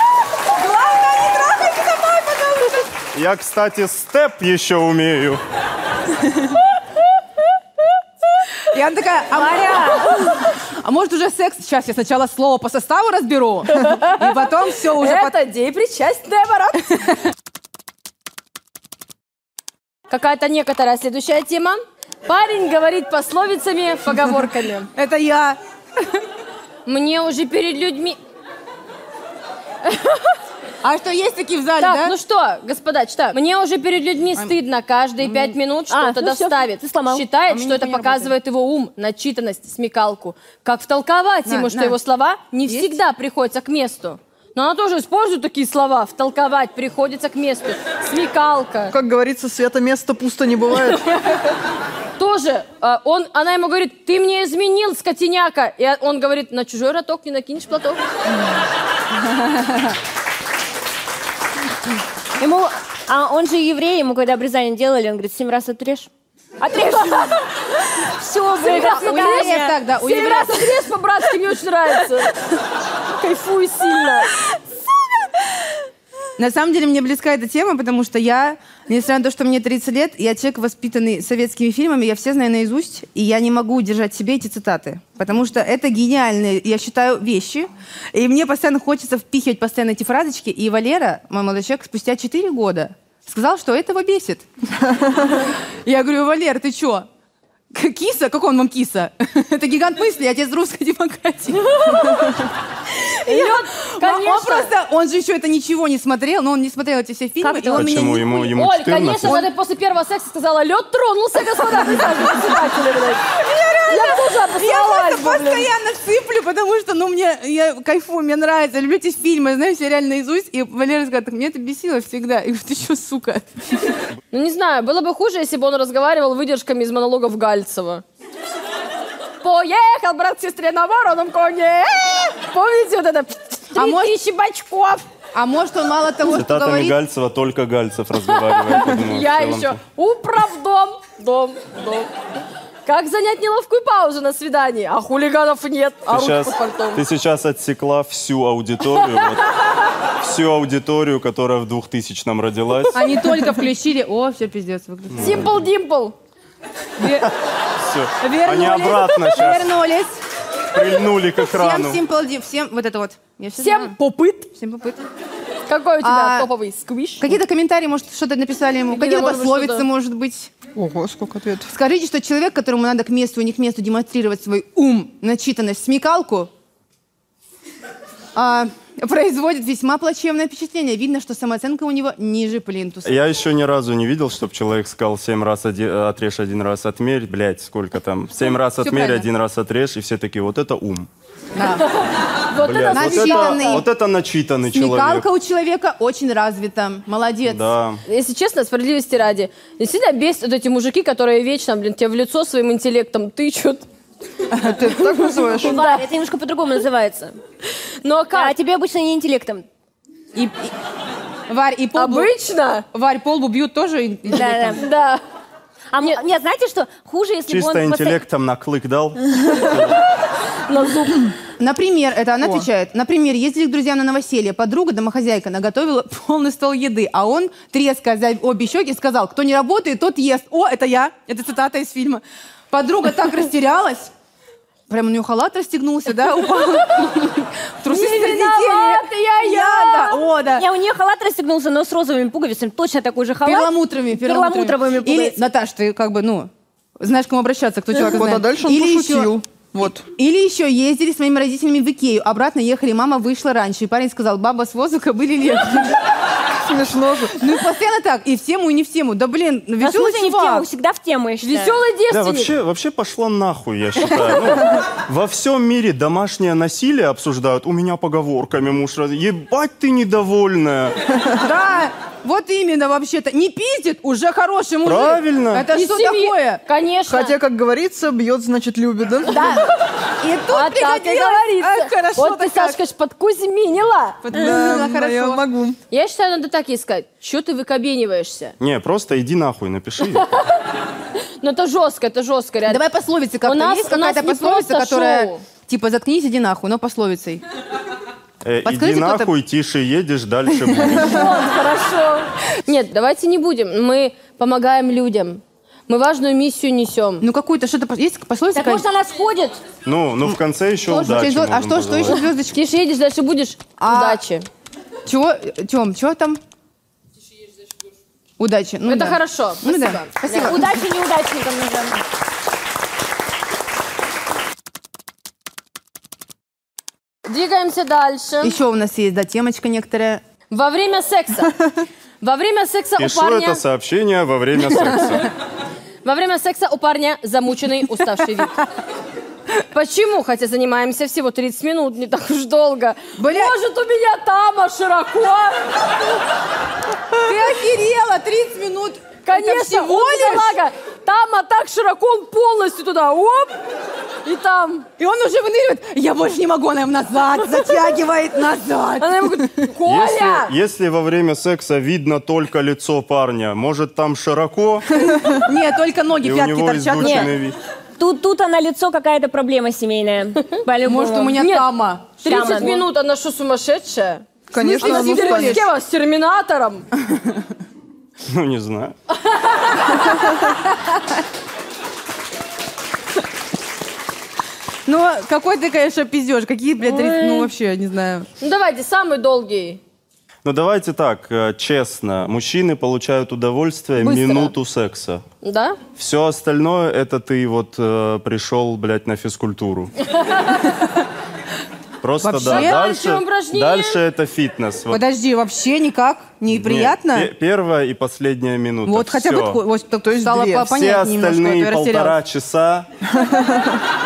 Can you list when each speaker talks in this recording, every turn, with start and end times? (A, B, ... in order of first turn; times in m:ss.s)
0:00.5-0:02.9 A
0:03.1-0:05.4 B
0:08.7-0:15.4 A
0:09.4-0:10.0 C
0:13.8-0:14.4 D
0:14.9-0:17.0 D
0:20.1-0:24.9 D
0:25.0-0:26.2 A
0:26.9-0:28.2 D
0:29.8-0:30.4 D
0:30.8-0:32.2 A
0:31.8-0:49.0 D
0:35.2-0:35.5 A
0:35.9-0:37.2 C
0:37.5-0:38.3 A
0:41.4-0:42.0 A
0:42.7-0:43.0 A
0:48.9-0:51.1 E
0:52.2-0:58.0 D
1:02.4-1:06.1 C
1:06.6-1:07.4 C
1:07.0-1:07.4 D
1:08.0-1:09.8 C
1:08.6-1:12.3 D
1:08.6-1:10.7 A
1:13.2-1:14.3 D
1:16.4-1:34.5 A
1:35.3-1:37.1 A
1:37.7-1:42.3 A
1:41.6-1:42.4 D
1:43.0-1:44.7 D
1:43.2-1:48.5 A
1:47.4-1:48.1 C
1:47.7-1:49.5 B
1:48.4-1:53.3 D
1:53.3-2:03.9 A
1:53.8-1:55.7 D
2:04.3-2:08.0 D
2:09.4-2:15.1 D
2:13.8-2:14.1 A
2:15.3-2:17.0 A
2:16.3-2:19.8 B
2:18.3-2:22.1 D
2:22.9-2:27.0 D
2:26.1-2:29.5 B
2:30.2-2:33.1 B
2:32.9-2:35.5 A
2:35.1-2:35.6 B
2:35.2-2:36.2 D
2:37.0-2:37.3 A
2:37.1-2:39.7 B
2:38.2-2:40.2 A
2:40.7-2:42.0 B
2:41.4-2:43.9 A
2:43.6-2:44.5 D
2:44.5-2:45.0 A
2:45.7-2:47.3 D
2:46.0-2:46.5 A
2:47.2-2:50.5 A
2:48.9-2:49.9 D
2:50.8-2:51.7 E
2:51.7-2:56.5 A
2:58.4-3:03.2 A
3:03.0-3:11.1 B
3:08.5-3:09.3 A
3:11.6-3:11.8 A
3:11.6-3:13.8 D
3:12.6-3:15.2 B
3:12.9-3:13.9 A
3:14.7-3:17.7 A
3:17.5-3:18.0 B
3:18.1-3:23.8 D
3:24.5-3:25.7 E
3:25.0-3:26.1 D
3:25.6-3:27.4 C
3:28.0-3:28.5 D
3:28.3-3:29.6 C
3:30.4-3:30.7 A
3:31.5-3:32.3 A
3:32.0-3:32.8 D
3:32.9-3:34.8 A
3:34.3-3:34.8 C
3:34.8-3:35.2 D
3:35.9-3:38.2 C
3:37.5-3:40.0 B
3:40.7-3:41.3 D
3:41.6-3:54.1 A
3:54.9-4:00.7 A
3:57.9-4:00.2 D
4:00.6-4:05.4 C
4:03.4-4:09.4 A
4:08.0-4:10.0 E
4:10.1-4:16.0 A
4:16.6-4:17.4 E
4:17.4-4:20.7 A
4:19.8-4:21.8 C
4:21.4-4:22.5 D
4:22.1-4:30.9 B
4:31.4-4:36.6 A
4:34.8-4:35.7 B
4:35.7-4:37.4 D
4:37.1-4:39.4 E
4:39.3-4:39.7 D
4:39.3-4:39.6 A
4:40.2-4:42.8 A
4:40.5-4:44.2 D
4:44.2-4:45.4 A
4:44.3-4:45.8 E
4:45.9-4:48.6 D
4:48.6-4:50.3 B
4:51.4-4:52.8 D
4:52.7-4:57.4 A
4:53.4-4:55.4 D
4:58.4-5:01.3 B
4:58.6-4:59.3 A
5:00.8-5:07.2 D
5:07.2-5:08.9 A
5:08.6-5:09.4 C
5:09.0-5:09.6 D
5:09.8-5:12.2 B
5:10.9-5:12.6 A
5:12.1-5:14.5 D
5:13.8-5:14.2 A
5:15.1-5:16.4 A
5:18.4-5:20.8 A
5:18.9-5:20.6 D
5:20.3-5:22.0 C
5:27.2-5:28.6 D
5:28.4-5:30.2 A
5:30.5-5:31.6 D
5:32.2-5:33.6 D
5:33.0-5:35.3 B
5:36.0-5:38.6 D
5:39.7-5:45.9 D
5:43.2-5:43.5 A
5:47.2-5:50.6 A
5:49.2-5:53.5 D
5:54.2-5:54.9 D
5:55.0-5:59.7 A
5:59.0-6:00.6 D
5:59.8-6:05.1 B
6:05.0-6:07.3 A
6:06.2-6:07.6 B
6:07.0-6:07.3 C
6:08.0-6:11.4 C
6:10.8-6:12.8 A
6:11.4-6:16.8 D
6:12.2-6:12.8 C
6:14.5-6:15.6 E
6:14.6-6:15.6 A
6:18.2-6:18.9 B
6:19.2-6:20.4 D
6:20.4-6:20.9 A
6:24.9-6:28.3 A
6:28.4-6:29.8 D
6:30.4-6:35.2 B
6:34.0-6:34.5 D
6:35.4-6:35.8 D
6:36.0-6:39.9 B
6:40.2-6:40.8 D
6:42.0-6:45.0 B
6:42.2-6:42.9 A
6:42.4-6:44.0 D
6:44.9-6:47.3 A
6:46.5-6:49.6 B
6:48.8-6:52.2 A
6:50.0-6:50.7 E
6:50.7-6:52.9 B
6:53.1-6:53.7 E